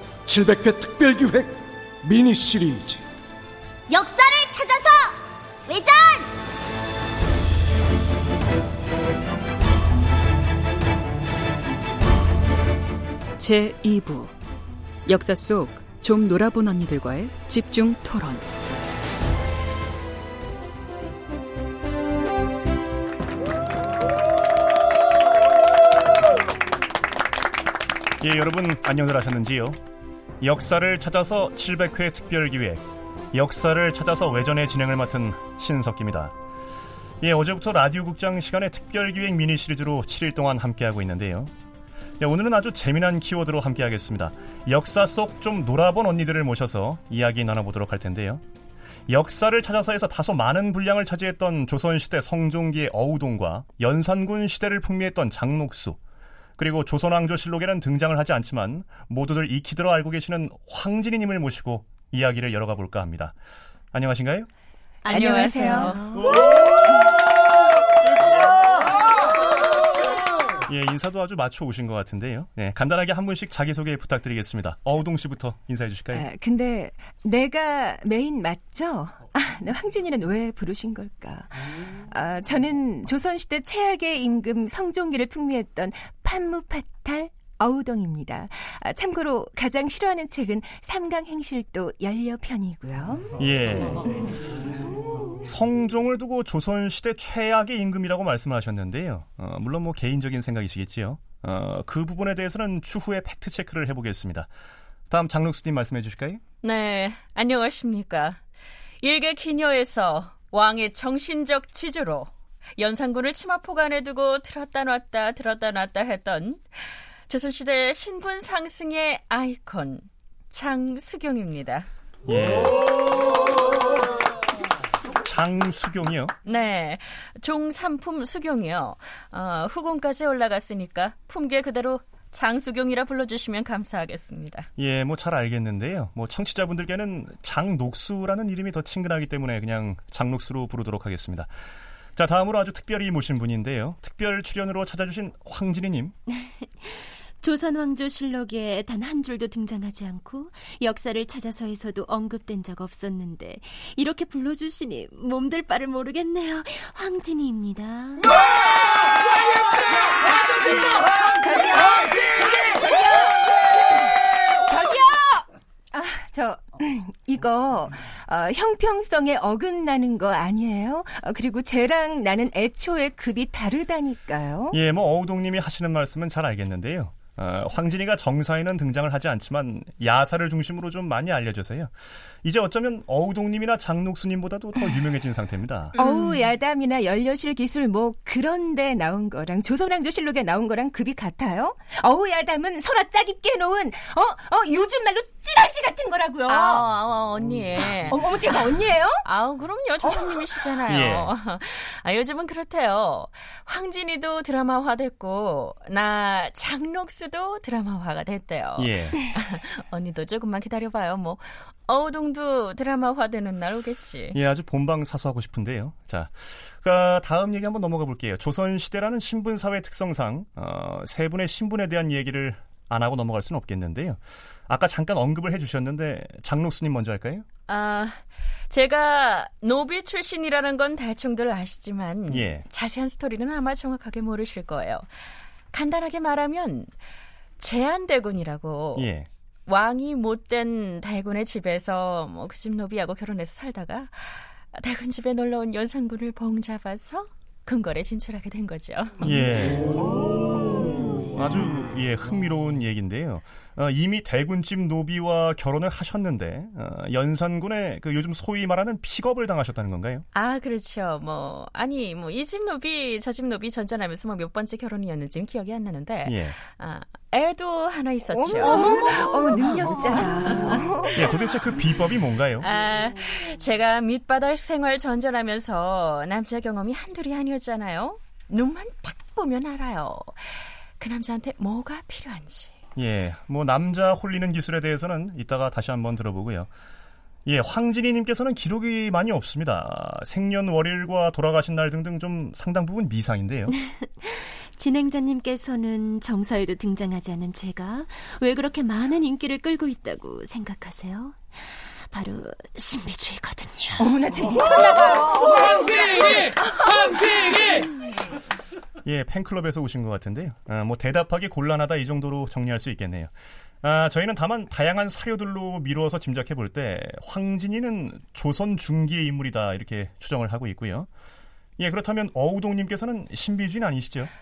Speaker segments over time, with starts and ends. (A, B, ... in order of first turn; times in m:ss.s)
0:00.3-0:03.0 A
0:03.9-0:06.3 B
0:13.4-0:14.3 C
0:15.0-0:18.4 C
0:28.2-0:29.8 D
0:30.4-0:36.3 D
0:37.2-0:41.5 D
0:42.2-0:48.4 D
0:49.1-0:56.0 D
0:56.6-1:03.3 D
1:03.9-1:04.5 D
1:05.0-1:06.6 E
1:05.1-1:06.0 F
1:05.1-1:06.0 G
1:10.6-1:16.2 D
1:16.1-1:33.3 F
1:33.4-1:34.2 D
1:35.4-1:44.5 D
1:45.1-1:46.4 D
1:46.6-1:48.4 G
1:49.0-2:01.9 G
2:02.3-2:02.8 D
2:05.2-2:06.3 D
2:06.4-2:14.7 G
2:14.8-2:21.5 D
2:22.2-2:26.1 D
2:26.3-2:38.3 E
2:38.2-2:39.1 F
2:39.7-2:54.8 F
2:54.7-3:01.9 D
3:02.4-3:06.0 D
3:06.0-3:06.2 G
3:06.0-3:16.8 F
3:16.5-3:34.4 G
3:17.9-3:19.2 F
3:20.0-3:20.7 F
3:20.9-3:21.3 D
3:28.8-3:29.3 D
3:34.3-3:47.4 D
3:47.7-3:55.1 G
3:52.3-3:52.6 D
3:55.7-3:56.9 G
3:57.6-3:59.1 G
3:58.9-3:59.3 D
3:59.7-4:09.3 G
4:09.2-4:10.0 D
4:10.1-4:10.5 F
4:11.3-4:20.2 D
4:20.3-4:29.0 G
4:26.2-4:26.6 D
4:28.3-4:31.3 F
4:31.1-4:32.7 D
4:32.6-4:42.7 G
4:43.0-4:46.7 D
4:47.4-4:53.7 D
4:53.7-5:04.1 E
5:04.0-5:07.1 F
5:09.0-5:13.3 D
5:13.8-5:21.1 D
5:21.8-5:24.3 D